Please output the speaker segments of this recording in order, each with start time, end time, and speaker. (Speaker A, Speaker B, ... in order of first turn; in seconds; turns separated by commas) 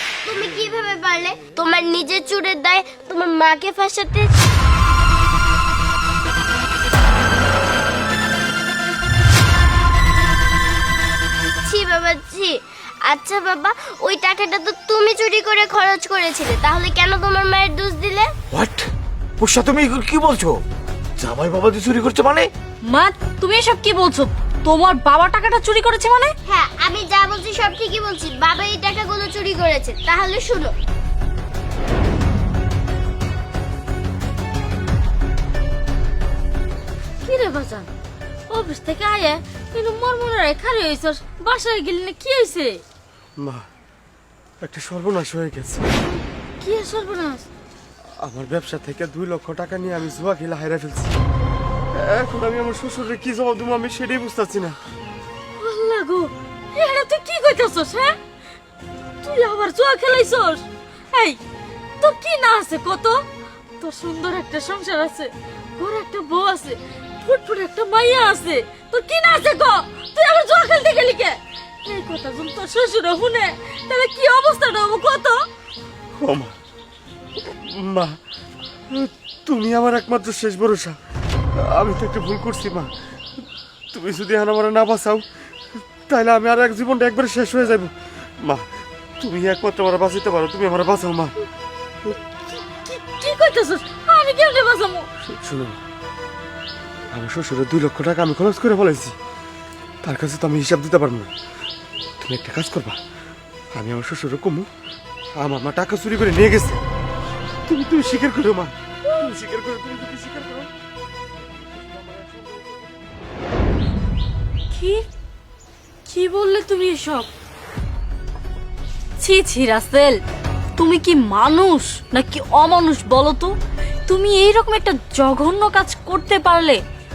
Speaker A: 0.2-4.3, Speaker A: 11.6-18.3, Speaker B: 18.5-18.9, Speaker B: 19.4-20.6, Speaker B: 21.2-22.5, Speaker C: 22.9-26.3, Speaker A: 26.5-30.7, Speaker D: 37.2-37.9, Speaker D: 38.5-42.8, Speaker E: 43.4-43.6, Speaker E: 44.6-45.9, Speaker D: 46.0-47.5, Speaker E: 48.2-51.2, Speaker E: 51.9-54.8, Speaker D: 55.6-58.2, Speaker D: 59.2-61.4, Speaker D: 62.0-63.2, Speaker D: 63.8-75.4, Speaker E: 76.2-76.5, Speaker E: 77.5-78.2, Speaker E: 78.9-80.9, Speaker E: 81.6-82.9, Speaker E: 83.9-85.2, Speaker E: 86.1-87.9, Speaker E: 89.2-91.3, Speaker D: 92.5-95.1, Speaker E: 95.2-95.8, Speaker E: 97.1-99.2, Speaker E: 100.0-101.3, Speaker E: 102.2-103.0, Speaker E: 103.7-104.7, Speaker E: 105.4-106.8, Speaker E: 107.7-110.7, Speaker E: 111.7-112.9, Speaker C: 114.7-115.0, Speaker C: 116.1-117.3, Speaker C: 119.2-120.2, Speaker C: 120.8-123.5, Speaker C: 124.1-126.8